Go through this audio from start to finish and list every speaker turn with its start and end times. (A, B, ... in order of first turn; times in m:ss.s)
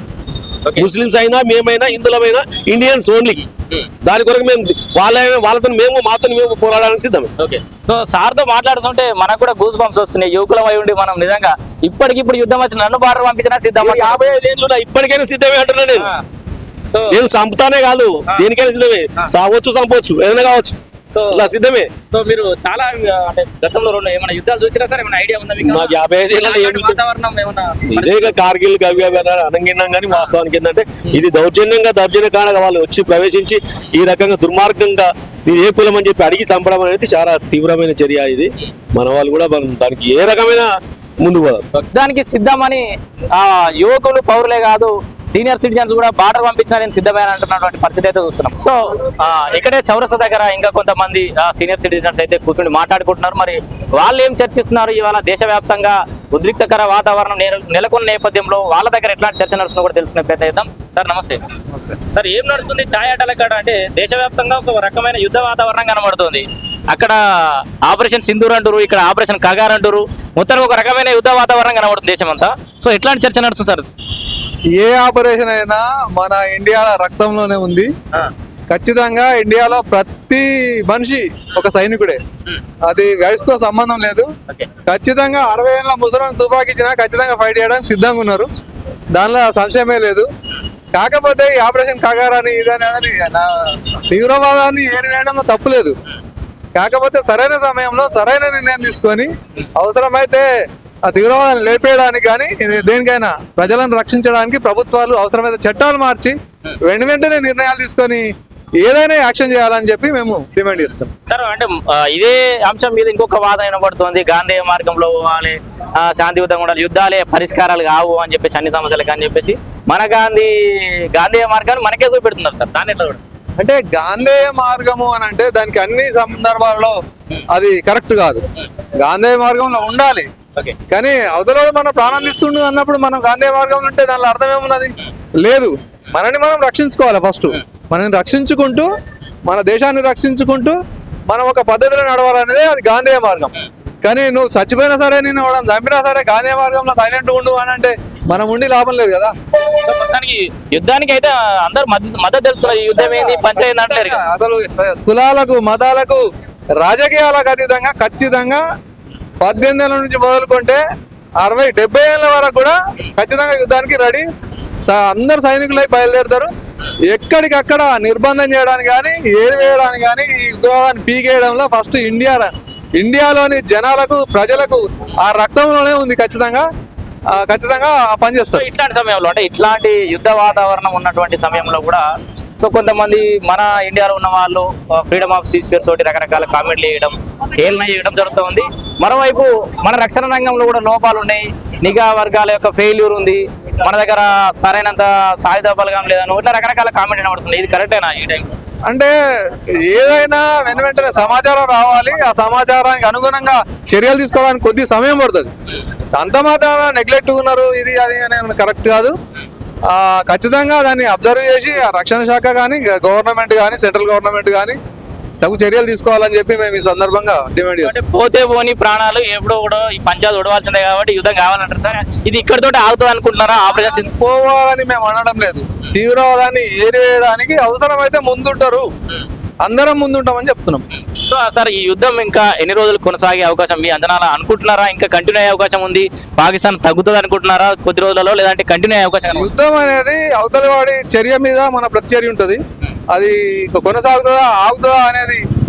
0:00.8-0:03.4 A
0:04.0-0:07.3 A
0:07.4-0:14.2 B
0:13.8-0:16.1 A
0:16.0-0:16.2 B
0:16.9-0:17.2 B
0:17.1-0:20.8 A
0:21.1-0:21.4 B
0:21.3-0:21.9 A
0:22.1-0:28.4 B
0:25.6-0:27.0 A
0:27.9-0:41.6 A
0:41.8-1:13.9 B
1:14.8-1:17.9 C
1:18.7-1:22.2 C
1:22.9-1:24.3 C
1:24.9-1:28.5 C
1:29.2-1:30.3 C
1:30.9-1:36.0 C
1:36.8-1:40.5 C
1:41.0-1:51.1 C
1:51.3-2:03.2 B
2:03.6-2:07.0 C
2:07.5-2:08.4 C
2:09.0-2:10.3 C
2:10.9-2:18.9 C
2:19.5-2:20.8 C
2:21.3-2:23.5 C
2:24.0-2:29.4 C
2:29.8-2:34.2 B
2:32.8-2:36.2 C
2:36.8-2:38.6 C
2:39.4-2:40.8 C
2:41.4-2:44.3 C
2:44.8-2:46.5 C
2:47.1-2:56.7 C
2:57.3-2:58.6 C
2:58.5-3:02.1 B
3:02.6-3:18.6 B
3:18.9-3:25.5 C
3:26.1-3:29.2 C
3:29.9-3:34.8 C
3:35.4-3:38.0 C
3:37.8-3:44.1 B
3:43.8-3:48.9 C
3:49.6-3:50.8 C
3:51.3-3:59.5 B
3:59.3-4:05.4 C